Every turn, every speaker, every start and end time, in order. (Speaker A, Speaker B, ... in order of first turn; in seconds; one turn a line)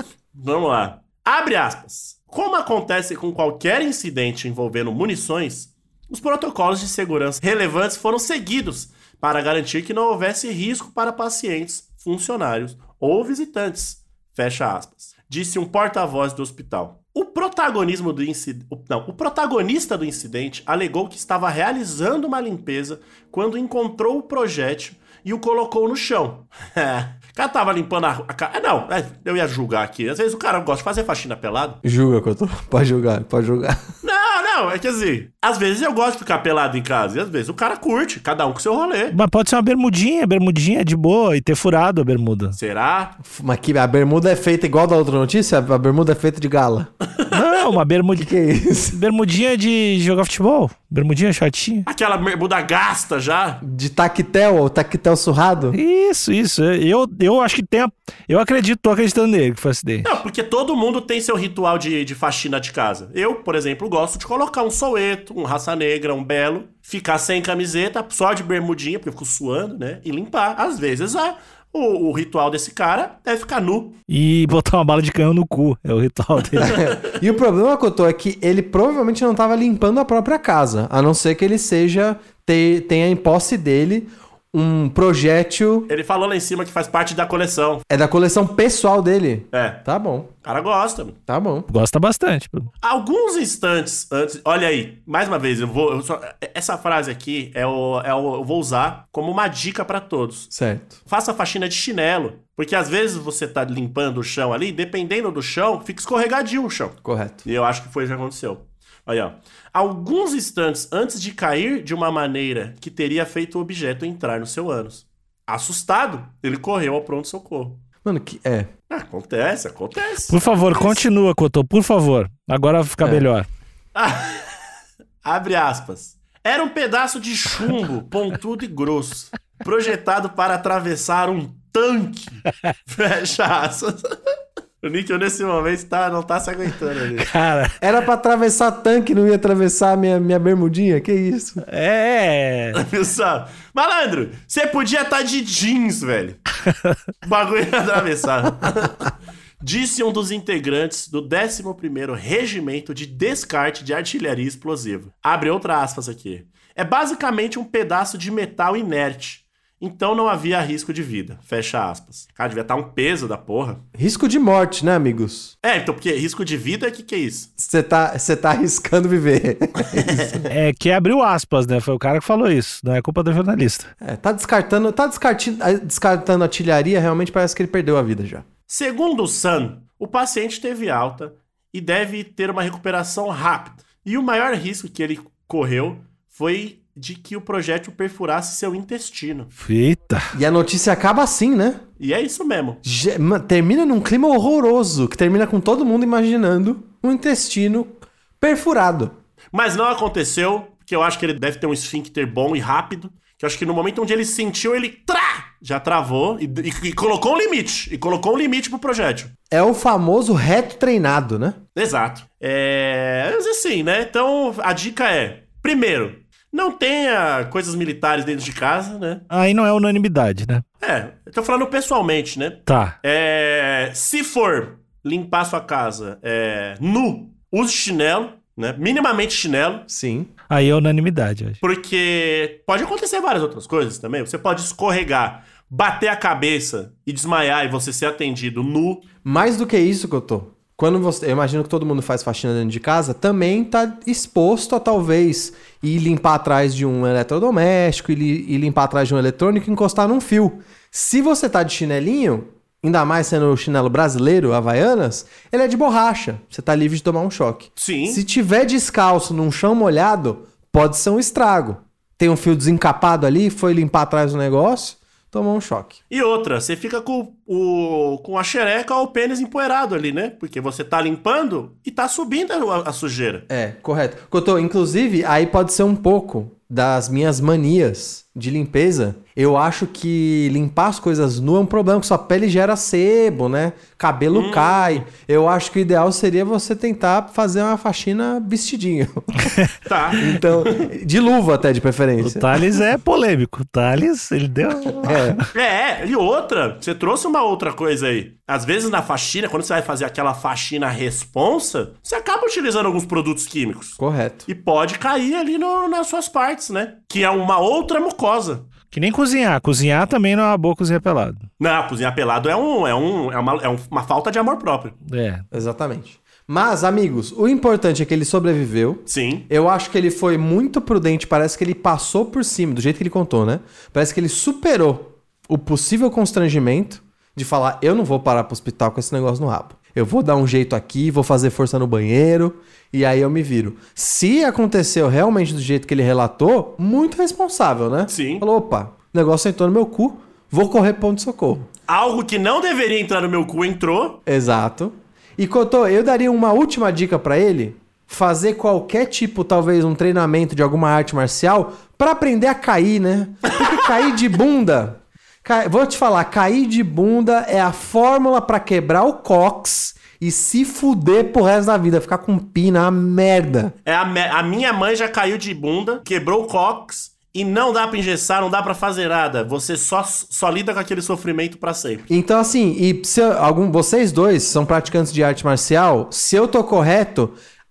Speaker A: 0.3-31.8
Speaker B: 31.8-33.8
Speaker A: 34.0-39.2
Speaker C: 39.1-42.6
Speaker A: 42.5-43.2
Speaker B: 43.2-46.9
Speaker A: 47.2-47.4
Speaker C: 47.3-48.3
Speaker B: 48.1-49.0
Speaker C: 48.9-51.9
Speaker A: 51.9-53.6
Speaker B: 53.6-55.8
Speaker C: 55.7-60.1
Speaker A: 60.0-74.0
Speaker C: 74.1-76.8
Speaker B: 76.6-85.9
Speaker A: 76.6-77.0
Speaker A: 85.9-87.8
Speaker B: 87.9-90.3
Speaker A: 89.5-89.8
Speaker A: 90.4-91.2
Speaker B: 91.3-91.7
Speaker C: 91.7-92.7
Speaker A: 92.8-100.5
Speaker B: 100.5-101.0
Speaker A: 101.1-117.8
Speaker B: 107.0-107.4
Speaker B: 118.0-118.7
Speaker A: 118.9-121.1
Speaker C: 120.3-123.5
Speaker A: 124.0-124.6
Speaker A: 125.2-134.0
Speaker A: 134.8-137.3
Speaker C: 137.2-137.8
Speaker B: 137.8-141.6
Speaker C: 141.6-142.8
Speaker A: 142.7-146.4
Speaker A: 147.2-163.8
Speaker B: 163.9-165.5
Speaker A: 165.6-167.5
Speaker B: 167.6-170.5
Speaker A: 169.9-170.3
Speaker C: 170.5-173.9
Speaker B: 174.0-178.5
Speaker A: 178.7-189.5
Speaker C: 189.6-190.3
Speaker B: 190.3-191.8
Speaker A: 192.0-192.8
Speaker B: 192.8-199.1
Speaker A: 199.5-209.3
Speaker B: 209.5-211.6
Speaker A: 211.8-219.2
Speaker C: 219.3-220.6
Speaker A: 220.8-229.8
Speaker C: 222.7-222.9
Speaker B: 229.9-230.3
Speaker C: 230.5-231.6
Speaker A: 231.6-239.1
Speaker B: 239.2-266.0
Speaker A: 257.8-258.2
Speaker A: 266.1-273.5
Speaker B: 273.5-289.4
Speaker A: 284.3-285.0
Speaker A: 289.9-290.9
Speaker B: 290.2-292.6
Speaker C: 292.2-295.4
Speaker B: 295.0-295.4
Speaker A: 295.5-308.7
Speaker B: 304.0-304.5
Speaker C: 308.9-311.4
Speaker A: 311.6-315.0
Speaker C: 315.1-315.4
Speaker B: 315.5-341.7
Speaker A: 319.1-319.5
Speaker A: 338.1-338.5
Speaker A: 341.9-344.2
Speaker B: 344.3-363.7
Speaker A: 363.9-372.1
Speaker B: 372.1-377.4